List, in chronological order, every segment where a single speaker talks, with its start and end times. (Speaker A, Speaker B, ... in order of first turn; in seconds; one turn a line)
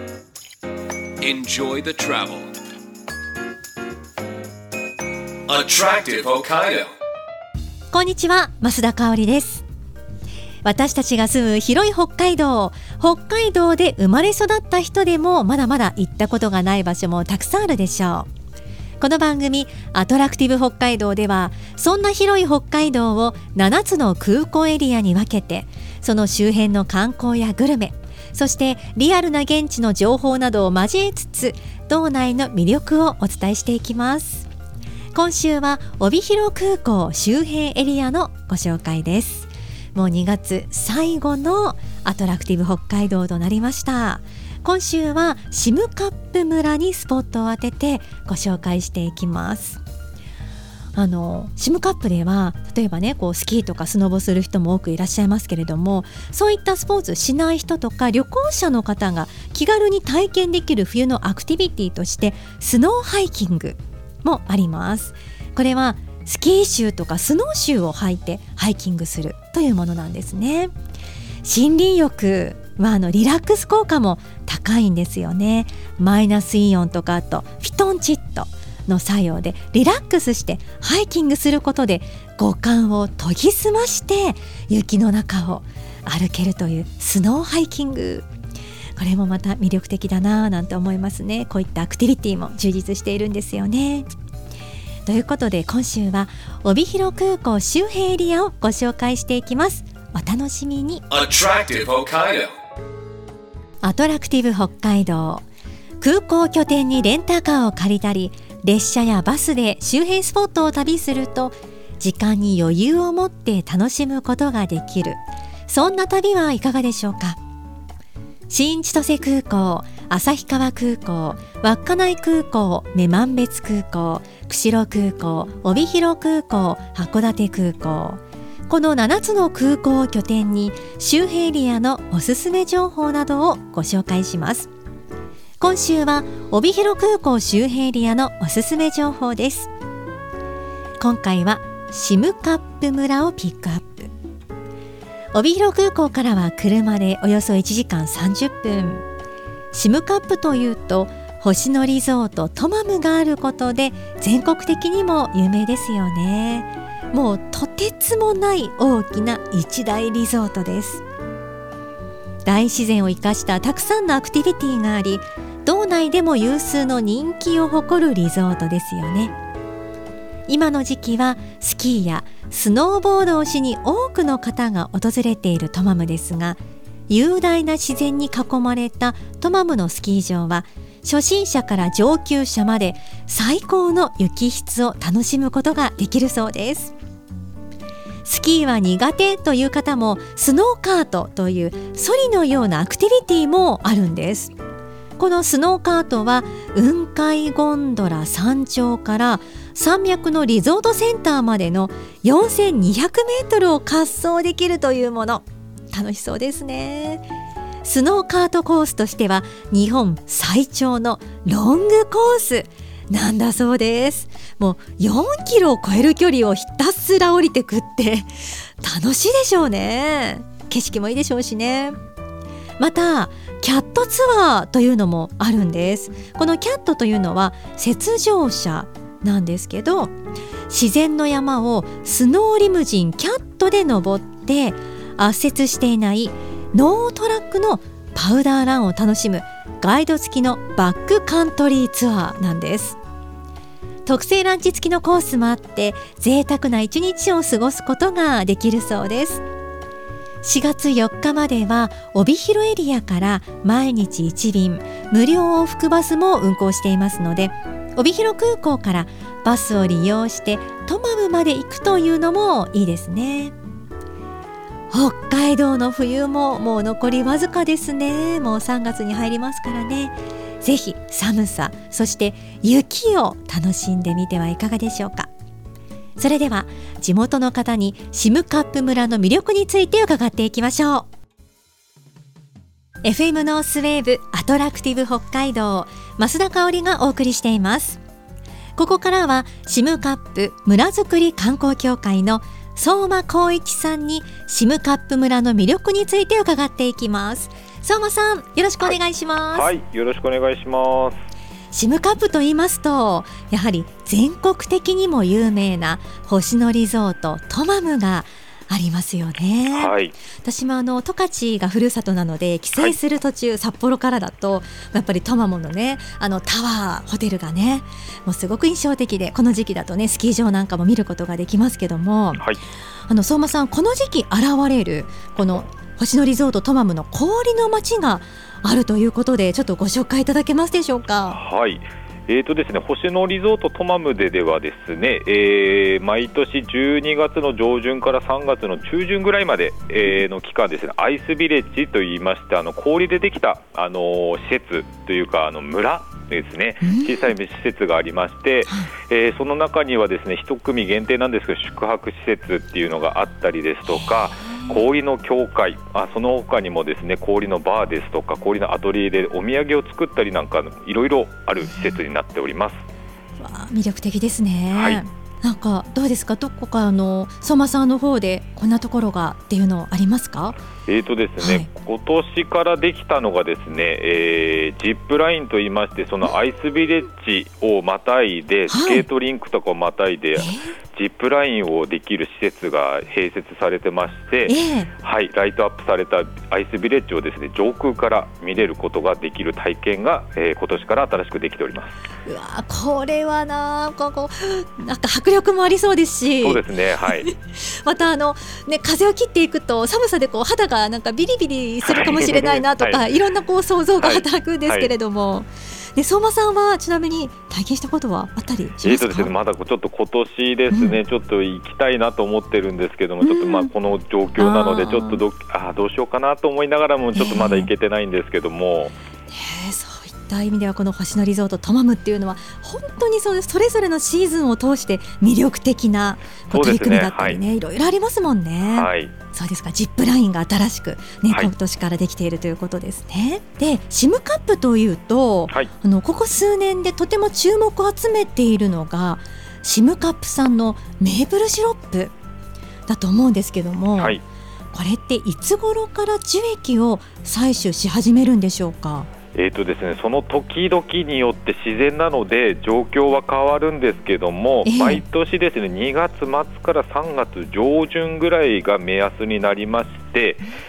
Speaker A: 1.2-2.5
Speaker A: 5.5-6.9
Speaker B: 7.9-9.6
Speaker B: 10.6-18.3
Speaker B: 19.0-34.5
Speaker B: 35.1-49.8
Speaker B: 51.0-70.7
Speaker B: 71.4-88.3
Speaker B: 89.0-94.1
Speaker B: 95.0-101.0
Speaker A: 101.1-102.5
Speaker B: 103.8-105.5
Speaker B: 106.0-117.4
Speaker B: 118.5-134.7
Speaker B: 135.6-139.7
Speaker B: 141.0-144.1
Speaker B: 145.3-149.0
Speaker B: 149.7-161.0
Speaker B: 162.4-169.3
Speaker B: 170.5-186.9
Speaker B: 188.2-194.5
Speaker B: 195.2-207.3
Speaker B: 207.8-221.9
Speaker B: 222.8-230.1
Speaker B: 230.7-243.0
Speaker B: 244.0-249.4
Speaker B: 250.4-263.5
Speaker B: 264.9-275.3
Speaker B: 276.2-281.1
Speaker B: 283.0-288.0
Speaker B: 288.8-299.7
Speaker C: 299.5-301.2
Speaker B: 301.7-322.5
Speaker C: 309.7-310.1
Speaker B: 323.0-331.4
Speaker C: 331.3-362.8
Speaker B: 346.8-347.3
Speaker B: 348.7-348.9
Speaker B: 353.9-354.8
Speaker B: 363.4-370.6
Speaker C: 364.7-365.0
Speaker C: 370.9-391.9
Speaker B: 371.4-371.7
Speaker B: 378.7-379.1
Speaker B: 380.4-380.8
Speaker B: 384.4-384.9
Speaker B: 392.2-409.3
Speaker C: 396.4-397.3
Speaker C: 401.8-403.0
Speaker C: 404.0-404.9
Speaker C: 408.8-418.9
Speaker B: 410.7-411.0
Speaker B: 413.2-413.7
Speaker B: 414.4-415.2
Speaker B: 417.1-417.7
Speaker B: 419.3-442.1
Speaker C: 426.5-427.4
Speaker C: 428.6-429.1
Speaker B: 442.9-444.2
Speaker C: 444.0-444.2
Speaker B: 444.7-449.1
Speaker C: 449.3-460.4
Speaker B: 454.6-455.0